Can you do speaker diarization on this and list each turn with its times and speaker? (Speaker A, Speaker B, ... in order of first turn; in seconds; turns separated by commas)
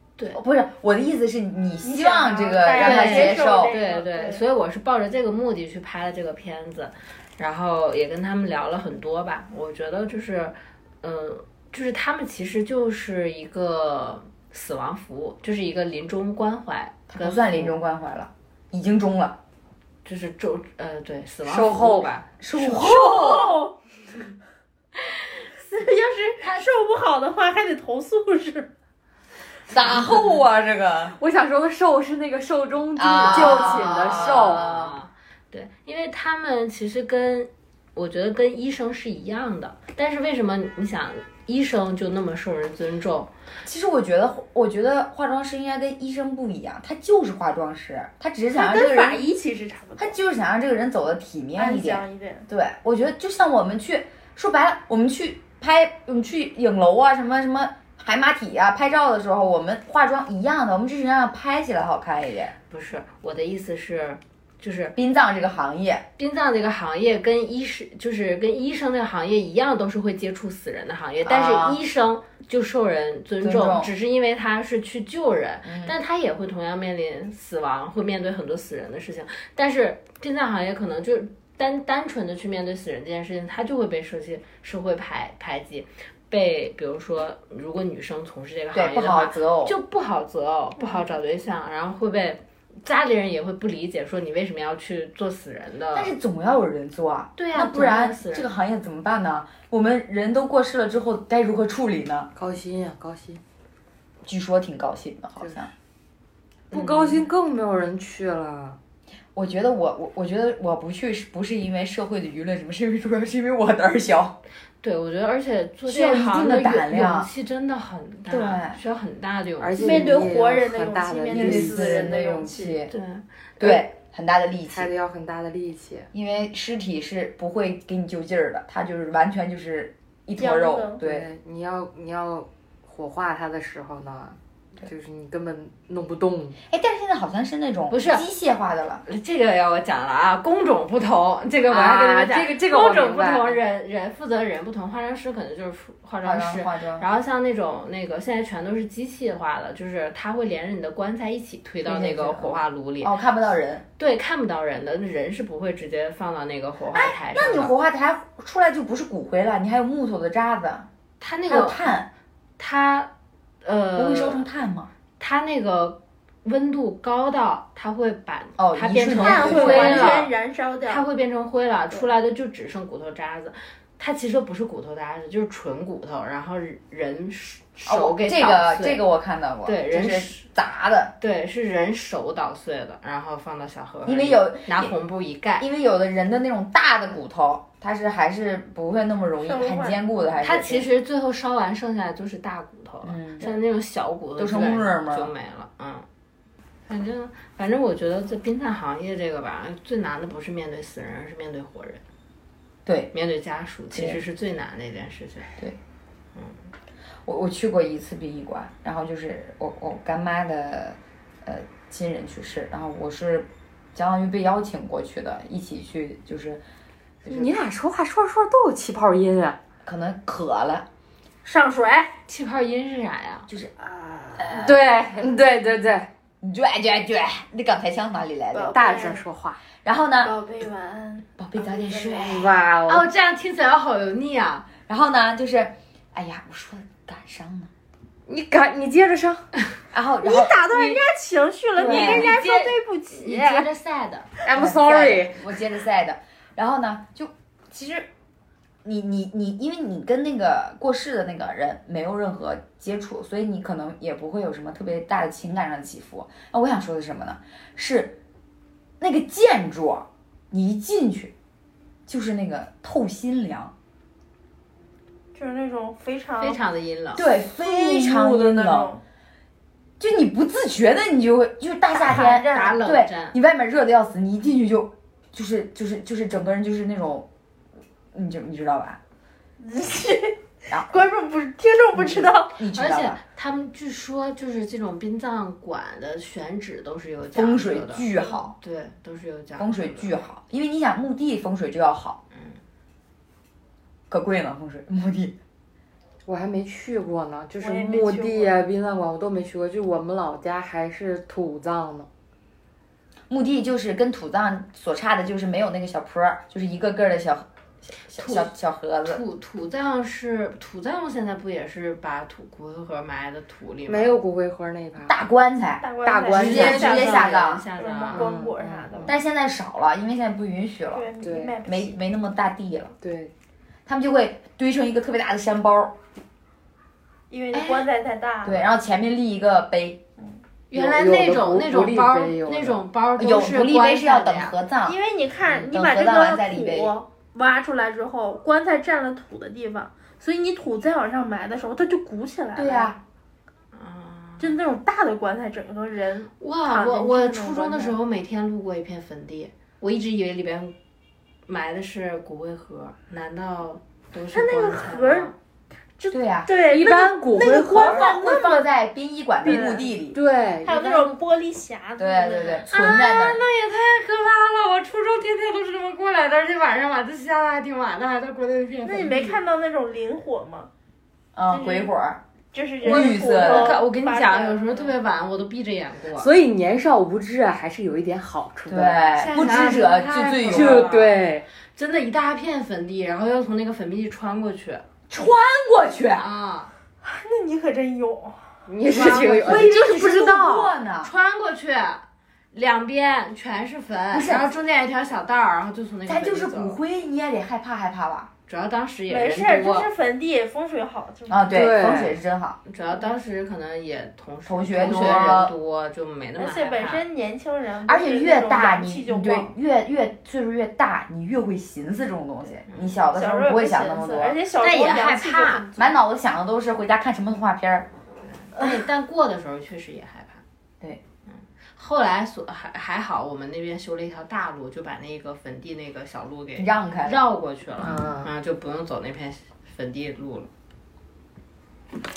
Speaker A: 0.3-3.8, Speaker B: 1.8-4.4, Speaker C: 2.8-17.8, Speaker A: 17.1-19.4, Speaker C: 20.1-22.3, Speaker D: 21.4-22.2, Speaker A: 22.4-23.6, Speaker B: 22.6-23.8, Speaker B: 25.5-28.7, Speaker A: 29.7-31.2, Speaker D: 29.9-30.4, Speaker D: 31.1-34.9, Speaker A: 33.0-34.7, Speaker C: 33.2-43.3, Speaker A: 43.6-49.2, Speaker B: 48.5-50.2, Speaker A: 50.0-62.5, Speaker B: 51.6-52.5, Speaker C: 62.7-64.9, Speaker A: 65.0-66.0, Speaker C: 66.2-96.1, Speaker A: 71.2-71.8, Speaker A: 73.4-73.9, Speaker A: 75.7-76.0, Speaker A: 88.7-89.8, Speaker A: 95.9-102.3, Speaker C: 97.4-98.5, Speaker D: 102.3-103.4, Speaker A: 104.2-105.7, Speaker D: 106.7-108.8, Speaker C: 106.7-107.2, Speaker A: 109.3-114.4, Speaker C: 114.8-120.1, Speaker A: 115.9-117.3, Speaker A: 118.3-118.8, Speaker D: 119.6-122.1, Speaker B: 119.8-122.8, Speaker A: 121.3-122.9, Speaker C: 122.9-123.2, Speaker A: 123.6-124.9, Speaker D: 124.7-126.1, Speaker A: 126.1-131.3, Speaker B: 130.4-131.0, Speaker D: 131.0-136.6, Speaker A: 136.7-139.1, Speaker C: 137.9-138.3, Speaker C: 139.1-153.2, Speaker D: 141.7-143.6, Speaker A: 146.2-147.1, Speaker A: 151.8-153.8, Speaker C: 154.0-157.7, Speaker A: 156.9-160.9, Speaker C: 161.2-161.8, Speaker A: 161.5-162.1, Speaker C: 162.6-163.1, Speaker C: 163.6-164.4, Speaker A: 164.0-164.9, Speaker C: 165.2-170.3, Speaker A: 168.6-170.3, Speaker B: 169.2-171.1, Speaker C: 170.9-179.0, Speaker A: 177.9-181.2, Speaker C: 179.7-180.4, Speaker C: 181.2-185.7, Speaker A: 184.1-184.9, Speaker A: 185.6-190.9, Speaker B: 189.4-190.0, Speaker C: 190.4-196.1, Speaker A: 193.0-193.5, Speaker A: 194.4-195.3, Speaker C: 196.9-202.0, Speaker A: 202.9-203.1, Speaker C: 203.1-205.6, Speaker A: 203.9-204.2, Speaker A: 207.3-216.6, Speaker A: 217.2-217.6, Speaker D: 217.3-219.6, Speaker A: 219.8-220.9, Speaker B: 221.4-222.2, Speaker C: 222.3-223.5, Speaker B: 223.9-224.4, Speaker A: 224.4-224.8, Speaker D: 224.5-226.1, Speaker A: 226.4-228.8, Speaker B: 228.5-229.2, Speaker D: 228.7-229.6, Speaker A: 229.8-230.3, Speaker B: 230.2-232.5, Speaker A: 231.4-232.5, Speaker D: 232.2-233.1, Speaker C: 232.9-234.7, Speaker A: 234.8-237.7, Speaker D: 238.3-239.5, Speaker A: 239.9-241.0, Speaker B: 240.2-243.7, Speaker C: 241.8-244.3, Speaker D: 241.8-242.3, Speaker D: 244.4-245.4, Speaker A: 244.5-248.1, Speaker A: 248.8-258.2, Speaker A: 259.0-261.3, Speaker A: 262.1-263.7, Speaker B: 265.4-266.6, Speaker C: 266.4-267.3, Speaker A: 267.1-268.9, Speaker B: 267.6-269.0, Speaker A: 270.0-277.3, Speaker B: 271.9-272.8, Speaker C: 272.5-273.4, Speaker A: 278.1-279.0, Speaker B: 279.6-282.6, Speaker A: 281.9-283.2, Speaker C: 282.7-288.1, Speaker A: 287.3-288.6, Speaker C: 288.6-290.1, Speaker A: 289.6-292.2, Speaker C: 292.3-292.6, Speaker A: 294.1-295.4, Speaker D: 296.3-302.1, Speaker B: 297.6-298.6, Speaker A: 303.3-309.2, Speaker C: 308.2-308.5, Speaker C: 309.0-314.2, Speaker D: 313.9-315.2, Speaker A: 315.1-317.6, Speaker B: 315.8-319.2, Speaker D: 316.0-316.9, Speaker C: 316.3-318.4, Speaker D: 318.1-319.2, Speaker A: 319.1-321.1, Speaker B: 320.9-322.0, Speaker D: 321.2-321.6, Speaker A: 321.6-322.9, Speaker D: 323.0-323.3, Speaker A: 323.9-326.0, Speaker B: 327.3-328.7, Speaker A: 327.5-327.9, Speaker A: 328.4-330.0, Speaker C: 330.7-334.5, Speaker D: 330.7-332.8, Speaker A: 333.2-335.0, Speaker B: 334.9-343.0, Speaker A: 335.5-336.9, Speaker A: 342.6-343.0, Speaker C: 343.7-344.5, Speaker B: 344.4-348.0, Speaker C: 346.4-350.8, Speaker C: 351.5-355.3, Speaker B: 354.3-355.3, Speaker B: 356.0-358.6, Speaker A: 356.1-356.5, Speaker D: 356.5-358.1, Speaker A: 357.4-360.2, Speaker B: 359.4-359.9, Speaker D: 359.4-361.2, Speaker B: 360.6-362.7, Speaker A: 362.0-363.4, Speaker C: 362.7-369.4, Speaker B: 368.8-370.7, Speaker A: 371.4-372.2, Speaker B: 371.5-371.9, Speaker B: 372.5-374.9, Speaker A: 372.8-373.8, Speaker C: 372.8-376.3, Speaker D: 376.1-379.2, Speaker A: 378.7-381.1, Speaker C: 379.2-381.1, Speaker D: 380.5-381.4, Speaker C: 381.8-384.9, Speaker A: 385.1-386.3, Speaker C: 386.2-386.7, Speaker B: 387.0-388.4, Speaker D: 388.7-389.8, Speaker C: 388.9-389.8, Speaker A: 389.4-391.1, Speaker B: 389.7-390.7, Speaker C: 391.0-396.8, Speaker A: 394.1-394.5, Speaker A: 396.1-398.3, Speaker C: 398.5-399.9, Speaker B: 399.1-401.4, Speaker A: 401.3-402.6, Speaker D: 401.5-402.2, Speaker C: 402.7-407.0, Speaker A: 404.4-405.5, Speaker B: 406.4-409.5, Speaker A: 407.9-414.4, Speaker B: 413.1-415.9, Speaker C: 414.6-415.7, Speaker A: 415.8-417.9, Speaker C: 418.4-420.4, Speaker C: 421.8-430.5, Speaker A: 426.6-427.2, Speaker D: 427.8-428.3